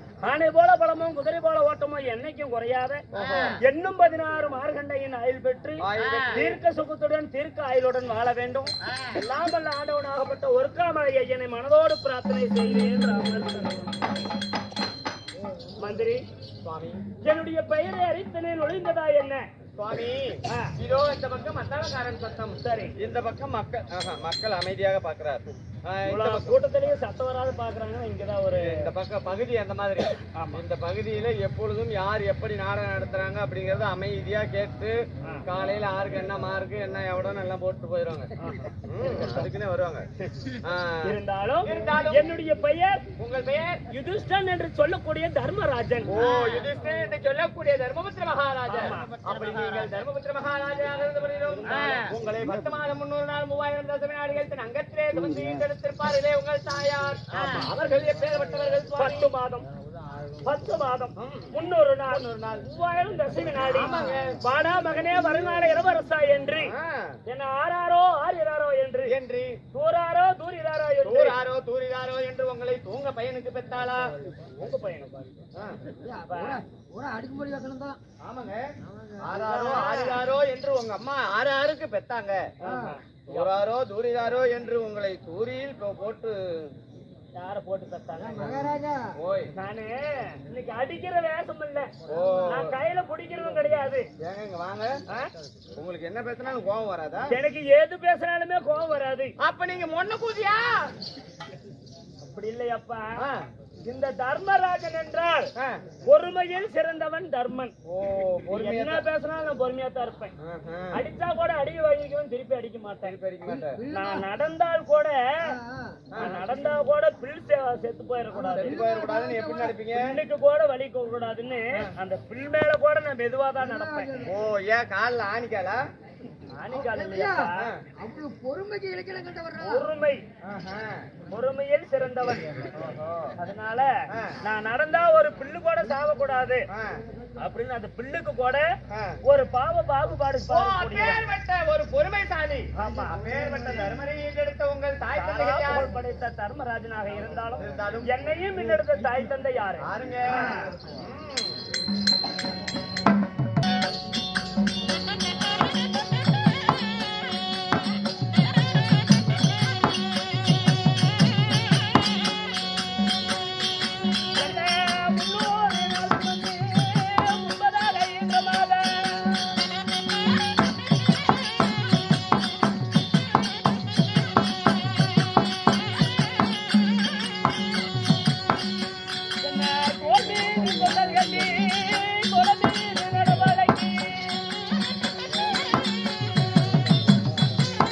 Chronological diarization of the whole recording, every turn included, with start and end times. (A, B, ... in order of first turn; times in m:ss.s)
0:00.2-0:03.0 A
0:03.1-0:03.6 B
0:03.6-0:13.9 A
0:05.8-0:06.6 B
0:15.8-0:16.2 A
0:16.6-0:17.0 B
0:17.2-0:19.5 A
0:19.8-0:26.6 B
0:20.5-0:20.7 A
0:22.6-0:22.9 A
0:26.1-0:28.9 A
0:28.6-0:42.3 B
0:30.3-0:30.6 A
0:38.4-0:39.4 A
0:41.0-0:43.0 A
0:43.2-0:43.8 B
0:43.9-0:46.1 A
0:46.0-0:59.3 B
0:48.7-0:49.1 A
0:49.1-0:49.8 C
0:51.7-0:52.1 C
0:59.0-0:59.6 A
1:00.4-1:06.7 A
1:01.2-1:01.5 B
1:02.1-1:02.6 B
1:03.6-1:04.3 B
1:06.6-1:07.2 B
1:07.3-1:09.1 A
1:09.0-1:09.6 B
1:09.7-1:11.4 A
1:11.0-1:14.1 B
1:14.6-1:15.3 A
1:15.5-1:15.8 B
1:16.2-1:18.0 C
1:16.2-1:16.6 A
1:18.2-1:22.5 B
1:19.4-1:20.2 A
1:22.6-1:23.5 A
1:23.3-1:26.7 B
1:27.3-1:28.7 A
1:28.3-1:29.2 C
1:29.1-1:29.5 B
1:29.6-1:31.9 A
1:32.1-1:32.7 B
1:32.4-1:34.0 A
1:34.2-1:35.0 B
1:35.8-1:37.3 B
1:37.3-1:39.3 A
1:39.4-1:40.9 B
1:42.2-1:43.2 A
1:43.2-1:43.4 B
1:43.8-1:45.5 A
1:45.6-1:45.8 B
1:46.1-1:47.7 A
1:47.8-1:49.0 B
1:48.5-1:50.3 A
1:50.4-1:51.0 B
1:50.9-1:53.2 A
1:53.0-1:53.8 B
1:53.9-1:55.6 A
1:56.1-1:56.4 B
1:56.2-1:58.9 A
1:58.5-2:00.2 B
1:58.8-1:59.7 C
1:59.9-2:04.3 A
2:03.8-2:04.2 C
2:04.2-2:05.8 B
2:06.6-2:07.7 A
2:06.9-2:07.4 C
2:07.6-2:07.8 B
2:08.0-2:09.8 C
2:09.6-2:10.2 A
2:10.4-2:11.0 B
2:11.3-2:12.7 A
2:12.7-2:13.3 B
2:13.4-2:13.9 A
2:14.1-2:14.4 B
2:14.4-2:16.6 A
2:16.7-2:17.0 B
2:17.4-2:18.7 A
2:18.9-2:19.2 B
2:19.2-2:21.2 A
2:20.5-2:25.9 B
2:22.8-2:23.2 A
2:25.2-2:30.7 A
2:27.6-2:28.1 B
2:29.8-2:31.6 B
2:44.3-2:49.6 A
2:59.4-3:04.5 A